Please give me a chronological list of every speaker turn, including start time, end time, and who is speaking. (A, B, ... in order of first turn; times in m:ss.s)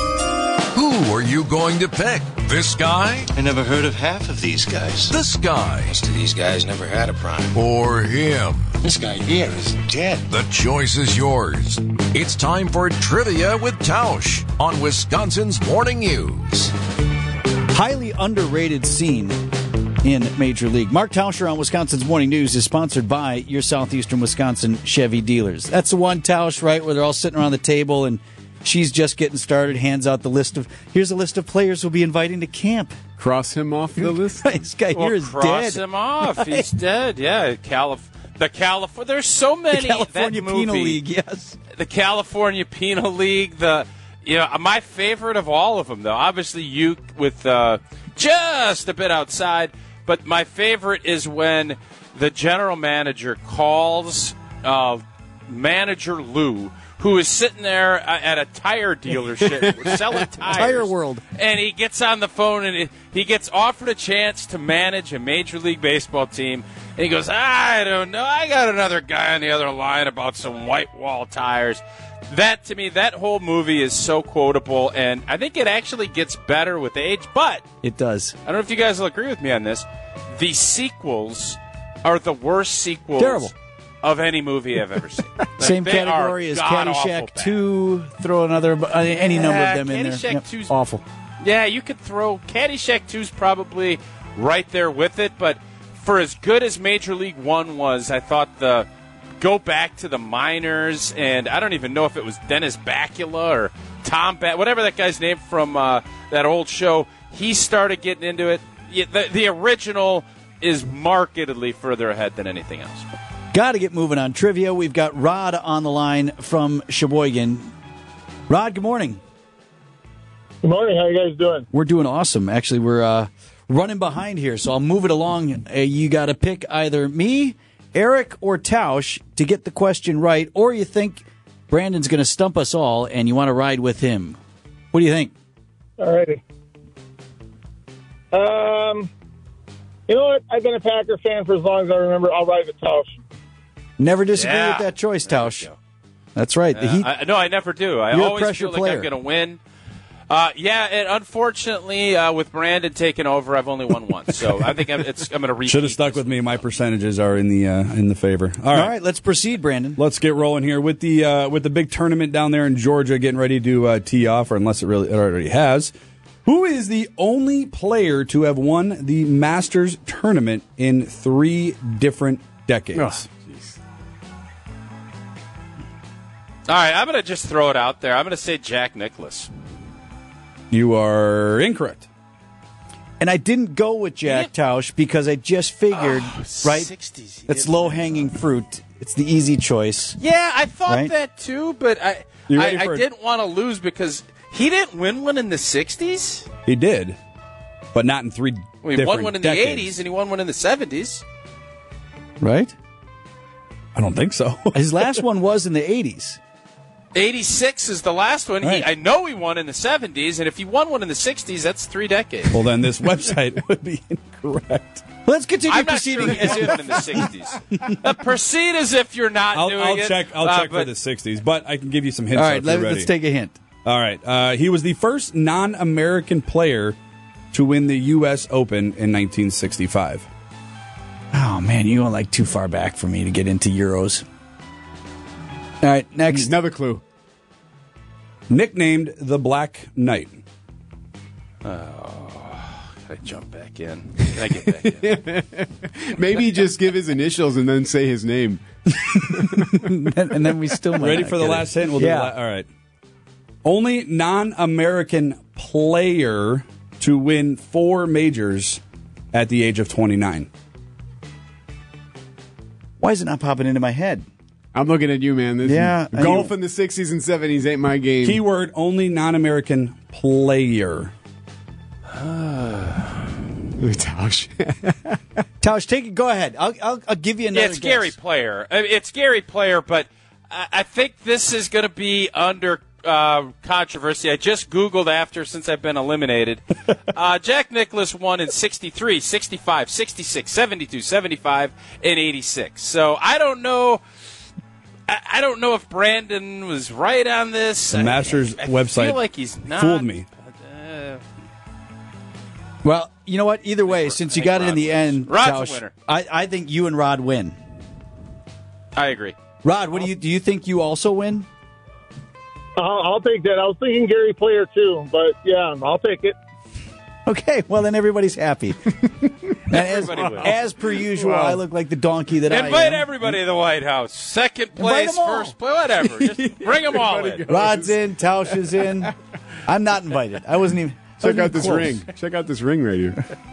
0:00.7-0:03.3 A
0:03.3-0:05.2 B
0:05.1-0:06.0 A
0:05.8-0:07.6 B
0:07.5-0:08.8 A
0:08.8-0:10.3 B
0:10.3-0:16.8 A
0:17.7-0:19.4 C
0:20.0-0:33.0 C
0:33.2-0:34.7 D
0:34.0-0:36.7 C
0:34.9-0:41.0 E
0:39.7-0:41.6 C
0:41.7-1:17.6 E
1:00.5-1:01.2 C
1:17.8-1:18.4 C
1:18.4-1:27.6 E
1:23.2-1:23.5 C
1:25.6-1:31.0 C
1:29.2-1:30.7 E
1:31.4-1:38.9 E
1:39.4-1:53.1 E
1:53.5-1:57.7 C
1:58.5-1:59.2 C
2:00.6-2:01.7 F
2:01.7-2:14.4 C
2:14.9-2:15.3 C
2:16.0-2:16.4 F
2:18.3-2:19.1 F
2:20.1-2:23.2 F
2:24.0-2:25.7 C
2:24.3-2:25.8 E
2:26.4-2:27.1 C
2:26.7-2:29.6 E
2:28.1-2:29.1 C
2:30.3-2:36.6 E
2:35.7-2:38.9 G
2:38.7-2:40.0 C
2:40.0-2:45.9 G
2:46.4-2:53.2 G
2:53.0-2:53.2 E
2:56.7-2:59.5 E
3:00.7-3:02.1 G
3:03.2-3:06.9 C
3:04.3-3:04.5 E
3:05.9-3:08.3 E
3:07.5-3:10.2 C
3:10.2-3:16.5 E
3:10.9-3:11.1 C
3:12.5-3:13.0 G
3:16.7-3:17.2 G
3:17.9-3:20.0 G
3:18.8-3:21.2 E
3:22.4-3:22.7 C
3:24.0-3:25.2 G
3:24.7-3:26.4 C
3:27.1-3:32.6 E
3:28.6-3:28.9 C
3:32.5-3:35.0 G
3:35.2-3:37.2 C
3:35.7-3:40.9 E
3:39.5-3:43.1 G
3:42.3-3:43.6 C
3:43.8-3:47.0 G
3:47.5-3:50.3 G
3:51.3-3:54.2 C
3:55.8-3:56.5 C
3:56.3-3:57.0 D
3:58.5-4:00.4 G
4:01.6-4:05.1 E
4:04.9-4:09.9 D
4:09.3-4:12.3 C
4:11.0-4:12.7 G
4:13.6-4:18.8 G
4:19.3-4:20.5 G
4:23.0-4:24.3 C
4:24.7-4:28.4 D
4:25.6-4:26.5 C
4:28.2-4:31.1 G
4:32.2-4:33.2 E
4:33.8-4:35.2 D
4:35.6-4:38.2 C
4:37.5-4:54.0 E
4:55.1-5:01.2 E
4:57.9-5:00.3 G
5:02.8-5:07.6 C
5:03.9-5:05.9 E
5:09.0-5:09.4 E
5:09.6-5:11.5 C
5:12.8-5:16.4 F
5:17.3-5:19.1 C
5:19.7-5:23.4 C
5:19.7-5:20.5 E
5:20.1-5:21.6 D
5:22.5-5:27.4 E
5:24.8-5:25.6 C
5:26.3-5:28.8 D
5:27.5-5:29.1 C
5:29.7-5:32.0 C
5:31.2-5:33.2 D